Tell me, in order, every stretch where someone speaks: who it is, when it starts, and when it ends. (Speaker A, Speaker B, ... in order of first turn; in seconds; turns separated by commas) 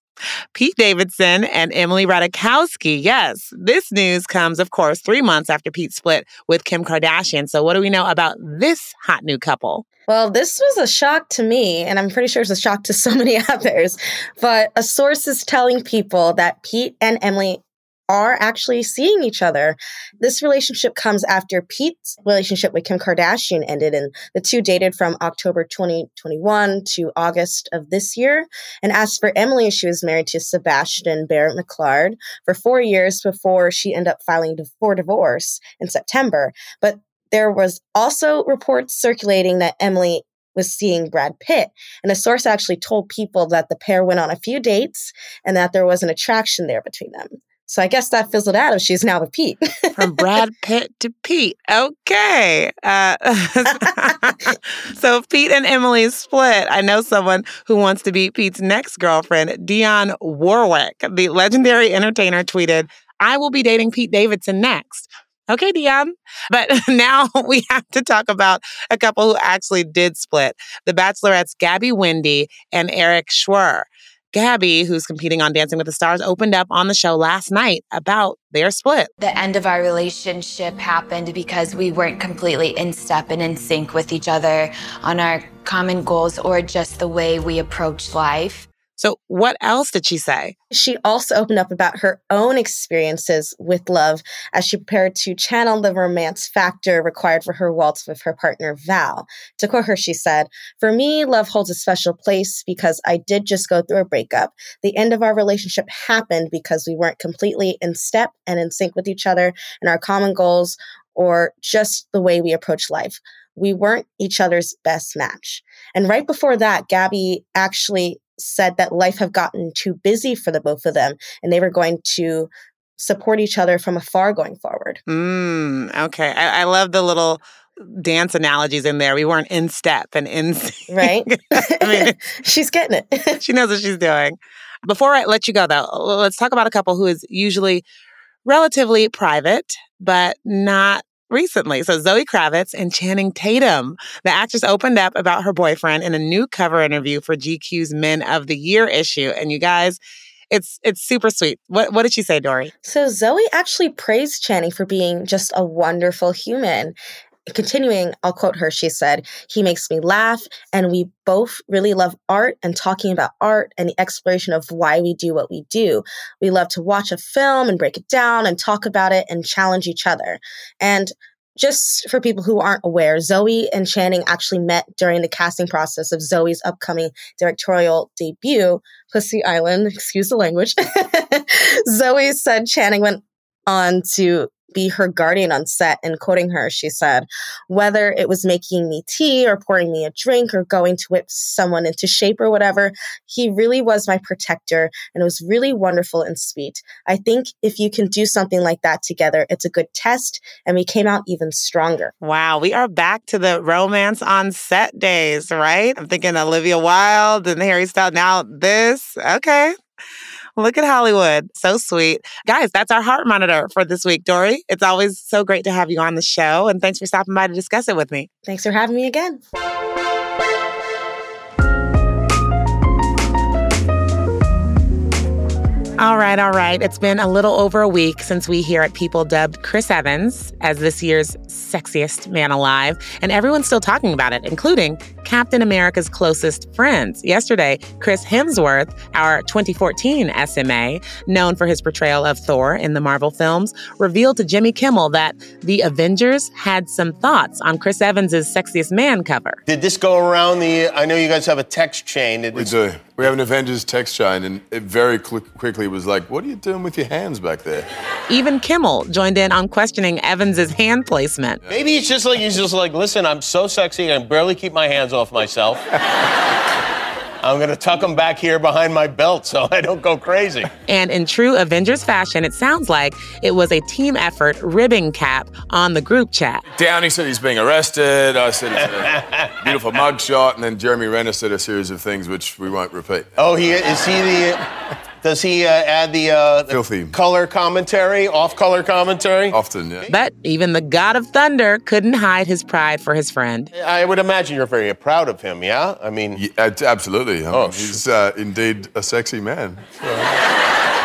Speaker A: 0.5-9.8, Speaker B: 10.1-50.0, Speaker A: 50.0-79.1, Speaker C: 79.2-88.7, Speaker A: 89.0-90.5, Speaker B: 90.7-125.0, Speaker A: 125.1-132.1, Speaker B: 130.9-133.4, Speaker A: 133.4-137.8, Speaker A: 138.4-150.0, Speaker A: 150.5-152.7, Speaker B: 152.8-157.0, Speaker B: 157.5-202.1, Speaker A: 202.2-209.7, Speaker A: 210.6-218.3, Speaker B: 218.5-219.4, Speaker A: 226.0-249.6, Speaker D: 249.7-253.3, Speaker E: 252.5-257.9, Speaker A: 258.3-261.6, Speaker D: 261.7-265.9, Speaker D: 267.4-270.7, Speaker A: 270.9-276.6, Speaker E: 276.8-283.3, Speaker D: 279.0-279.9, Speaker D: 283.4-284.6, Speaker D: 285.2-290.2, Speaker E: 286.7-287.1, Speaker E: 289.5-290.1, Speaker A: 290.1-293.7, Speaker D: 293.8-296.4, Speaker E: 296.4-300.4, Speaker D: 297.5-298.0